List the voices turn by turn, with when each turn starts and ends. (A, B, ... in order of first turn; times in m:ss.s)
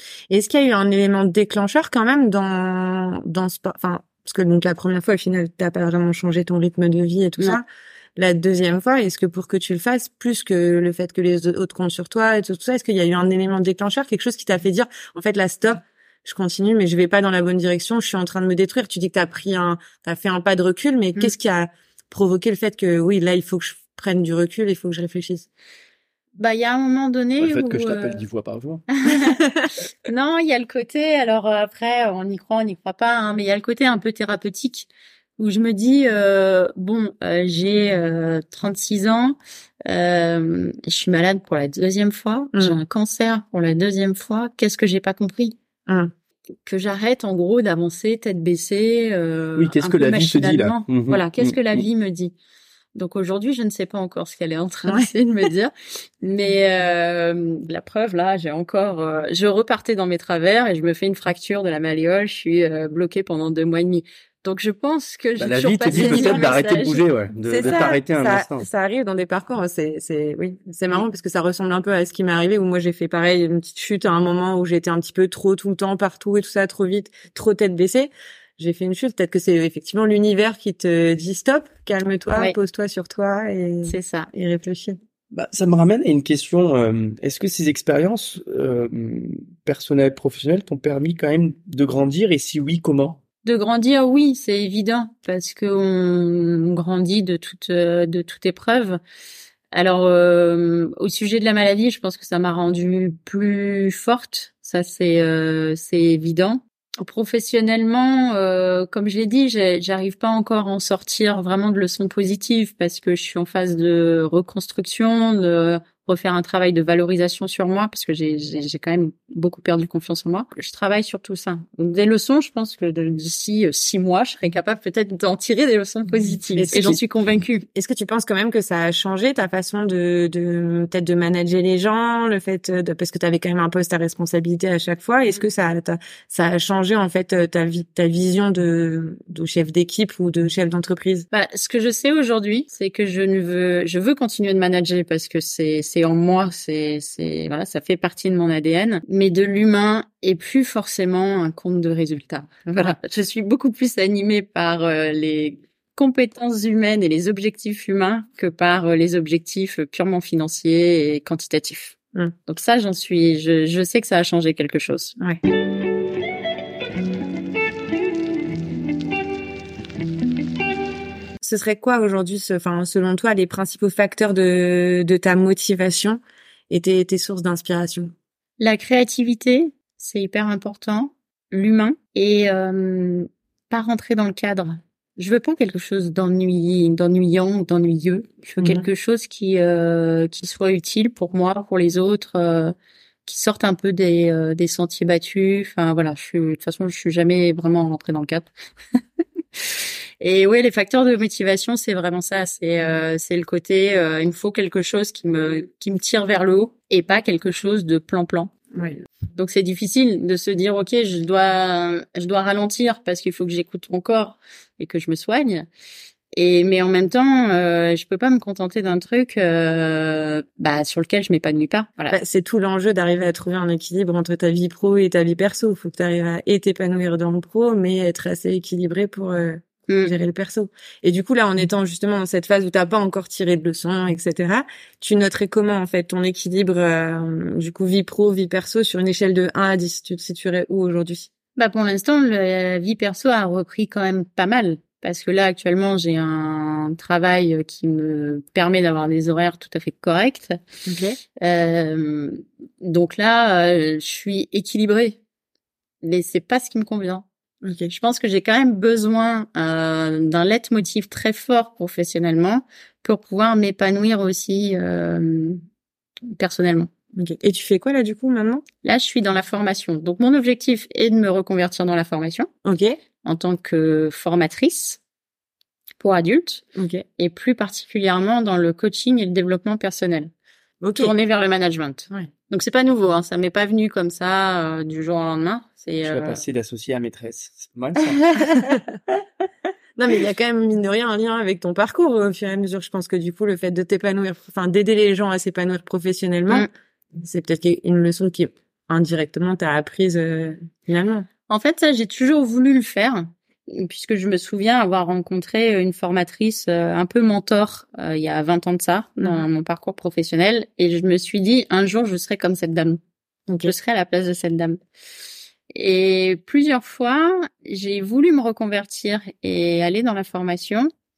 0:00.3-0:07.6 A
0:08.2-0:25.5 A
0:26.4-0:28.2 B
0:27.4-0:28.9 C
0:28.9-0:29.4 B
0:30.0-0:45.6 B
0:46.6-0:52.3 B
0:49.6-0:51.9 C
0:53.0-1:07.1 B
1:05.4-1:08.7 C
1:05.9-1:06.5 A
1:07.4-1:25.0 A
1:23.9-1:24.3 B
1:25.3-1:33.2 C
1:33.4-1:39.0 B
1:39.7-2:07.6 B
2:06.6-2:07.0 A
2:07.7-2:21.3 A
2:21.3-2:45.2 B
2:51.4-2:58.1 A
2:58.6-3:12.8 B
3:13.3-3:18.5 B
3:20.2-3:28.5 B
3:29.4-3:35.7 B
3:36.3-3:42.2 B
3:42.1-4:01.3 A
4:01.6-4:10.6 B
4:10.9-4:11.2 A
4:11.4-4:15.2 B
4:16.0-4:17.2 B
4:17.6-4:17.9 A
4:17.9-4:25.6 B
4:26.3-4:26.9 B
4:27.2-4:28.6 A
4:28.8-4:32.5 B
4:32.6-4:33.0 A
4:33.2-4:35.0 B
4:36.0-4:36.6 B
4:36.8-4:37.0 A
4:37.2-4:40.3 B
4:40.8-4:41.1 A
4:41.0-4:46.4 B
4:46.0-4:48.2 C
4:48.1-4:48.8 B
4:50.0-5:01.3 A
5:01.5-5:13.0 B
5:13.5-5:13.7 A
5:13.6-5:14.8 B
5:15.7-5:20.9 B